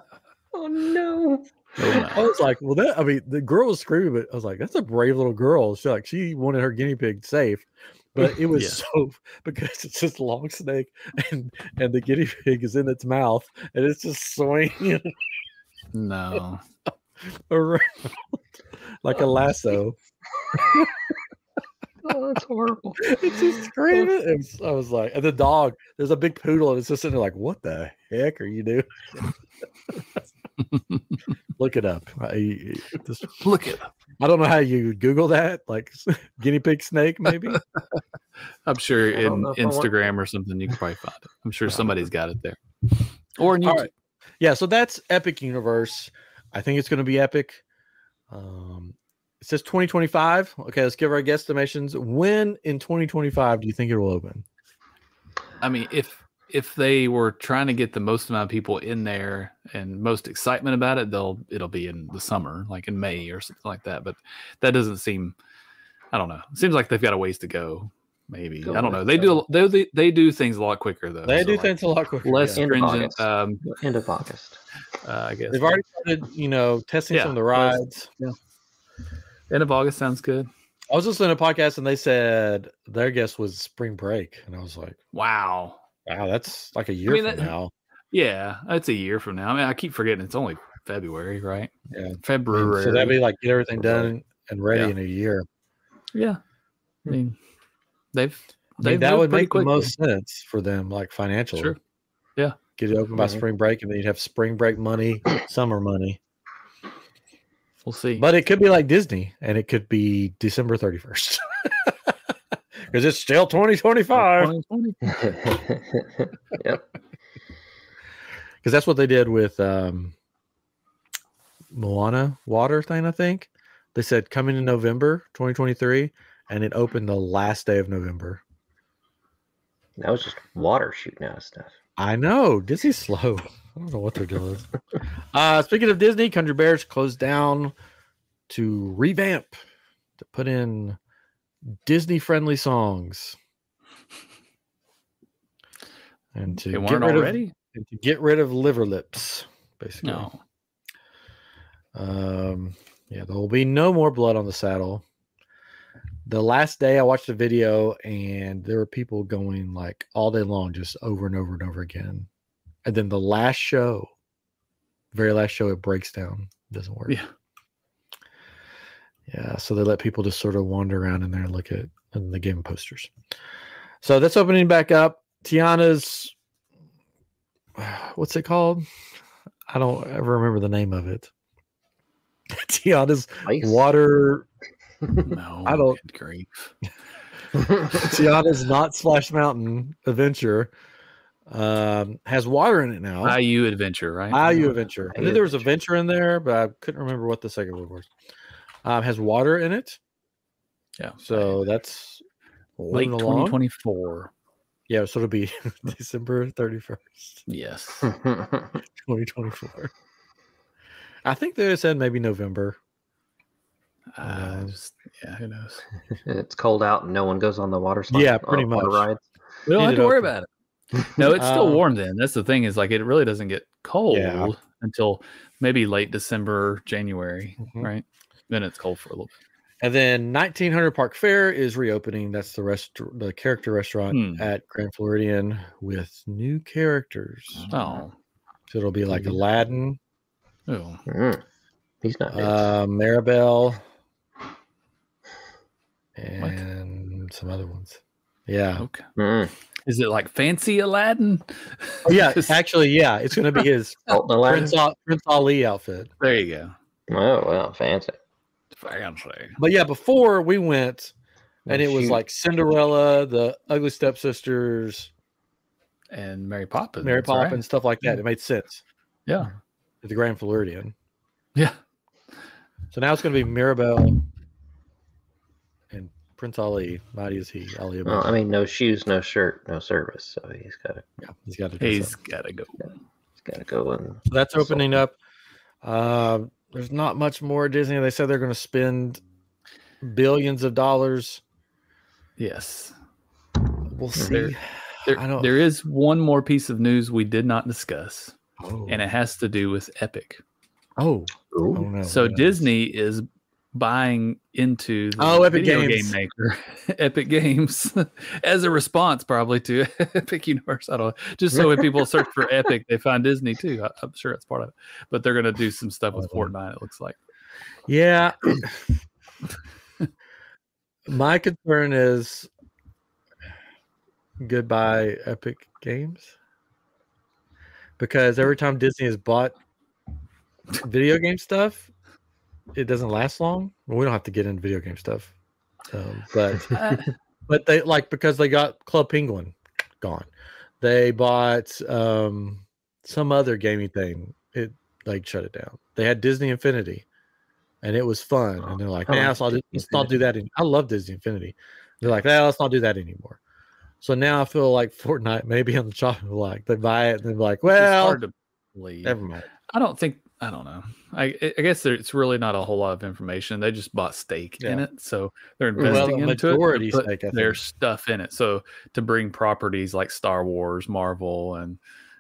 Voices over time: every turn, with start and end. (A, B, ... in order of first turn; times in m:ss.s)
0:00.5-0:02.1 A
0:01.8-0:02.3 B
0:02.0-0:15.2 C
0:08.5-0:08.8 B
0:15.9-0:16.6 B
0:17.2-0:18.4 C
0:19.0-0:20.0 C
0:20.6-0:20.9 C
0:22.0-0:23.7 A
0:23.0-0:28.9 C
0:30.7-0:31.0 B
0:31.6-0:33.4 C
0:33.3-0:33.9 B
0:34.2-0:37.6 C
0:37.5-0:38.0 B
0:38.7-0:42.6 B
0:39.1-0:39.9 A
0:41.7-0:42.0 C
0:43.4-0:43.9 B
0:43.6-0:47.6 C
0:48.3-0:54.4 C
0:55.6-1:05.4 B
1:06.1-1:13.8 B
1:08.6-1:09.4 A
1:11.2-1:12.7 C
1:12.6-1:14.6 A
1:15.0-1:15.8 B
1:15.5-1:18.1 C
1:17.1-1:18.4 B
1:19.5-1:20.5 B
1:20.9-1:25.0 C
1:25.1-1:25.8 B
1:26.1-1:27.7 C
1:27.1-1:27.5 B
1:28.1-1:31.7 B
1:31.9-1:35.4 C
1:32.2-1:33.2 B
1:36.1-1:36.4 B
1:37.1-1:37.4 B
1:38.1-1:39.9 B
1:38.8-1:41.8 C
1:42.8-1:46.2 C
1:43.2-1:43.4 A
1:47.8-1:48.3 B
1:48.2-1:52.1 C
1:52.8-1:54.5 C
1:54.1-1:55.1 B
1:55.1-1:56.9 A
1:58.6-2:00.2 C
2:01.7-2:08.4 C
2:10.0-2:11.7 A
2:12.0-2:14.7 C
2:15.3-2:17.7 C
2:18.5-2:19.6 C
2:20.2-2:21.0 C
2:21.8-2:23.4 C
2:26.3-2:30.3 C
2:26.7-2:27.5 B
2:30.0-2:30.4 B
2:31.9-2:35.0 C
2:36.3-2:42.3 C
2:42.8-2:44.1 C
2:45.1-2:47.2 C
2:49.3-2:53.1 C
2:54.0-2:56.3 C
2:57.8-2:58.9 C
2:59.7-3:01.3 C
3:02.5-3:04.5 C
3:03.4-3:03.8 A
3:05.2-3:06.7 B
3:05.6-3:06.0 C
3:07.8-3:08.1 A
3:07.9-3:10.7 C
3:11.5-3:13.4 C
3:13.2-3:14.8 B
3:14.3-3:18.1 C
3:15.1-3:15.5 A
3:18.8-3:20.0 C
3:21.0-3:21.6 B
3:21.2-3:22.2 C
3:22.8-3:23.6 C
3:22.9-3:24.3 B
3:24.9-3:27.4 C
3:27.5-3:28.1 B
3:28.0-3:28.8 A
3:29.0-3:29.9 C
3:31.2-3:32.8 C
3:34.1-3:35.9 B
3:34.2-3:34.7 C
3:36.2-3:39.2 A
3:38.1-3:39.1 C
3:39.7-3:40.5 B
3:39.8-3:40.3 C
3:41.0-3:49.3 B
3:41.4-3:41.8 C
3:44.1-3:44.5 C
3:47.6-3:47.9 C
3:49.8-3:57.7 C
3:54.1-3:54.5 B
3:57.7-3:58.0 A
3:57.7-3:58.2 B
3:58.7-4:00.0 C
3:59.1-3:59.4 B
4:00.7-4:01.0 B
4:01.1-4:01.4 A
4:02.0-4:02.7 A
4:02.3-4:03.8 C
4:06.2-4:08.9 C
4:08.8-4:09.1 B
4:09.2-4:09.5 A
4:09.8-4:12.6 B
4:12.0-4:16.1 C
4:14.1-4:14.8 A
4:16.2-4:16.7 B
4:17.1-4:18.2 A
4:18.8-4:19.6 B
4:19.6-4:21.1 C
4:21.7-4:22.2 A
4:21.7-4:25.1 C
4:26.1-4:28.2 B
4:27.0-4:28.8 C
4:30.0-4:30.9 C
4:32.9-4:34.3 C
4:35.9-4:38.3 C
4:38.0-4:41.1 A
4:41.2-4:42.2 C
4:41.8-4:42.9 B
4:43.4-4:44.8 A
4:44.3-4:45.2 C
4:45.8-4:49.2 C
4:50.0-4:51.4 C
4:52.4-4:52.9 B
4:53.9-4:55.6 C
4:54.3-4:58.4 B
4:58.6-4:59.0 C
4:58.9-5:00.4 B
5:01.0-5:02.7 C
5:01.5-5:01.9 A
5:02.1-5:17.2 B
5:05.2-5:06.2 C
5:11.5-5:12.0 A
5:16.1-5:16.5 C
5:17.9-5:19.0 C
5:21.1-5:22.5 C
5:24.4-5:26.3 C
5:28.0-5:29.6 C
5:30.7-5:31.9 C
5:32.7-5:35.3 C
5:35.9-5:36.8 C
5:36.7-5:37.1 B
5:37.5-5:40.3 C
5:40.8-5:47.0 C
5:47.8-5:53.4 C
5:49.1-5:50.1 A
5:54.0-5:58.2 C
5:57.7-5:59.2 B
5:59.0-5:59.5 C
5:59.7-6:11.8 B
6:04.6-6:04.9 C
6:05.8-6:06.1 A
6:05.8-6:07.6 C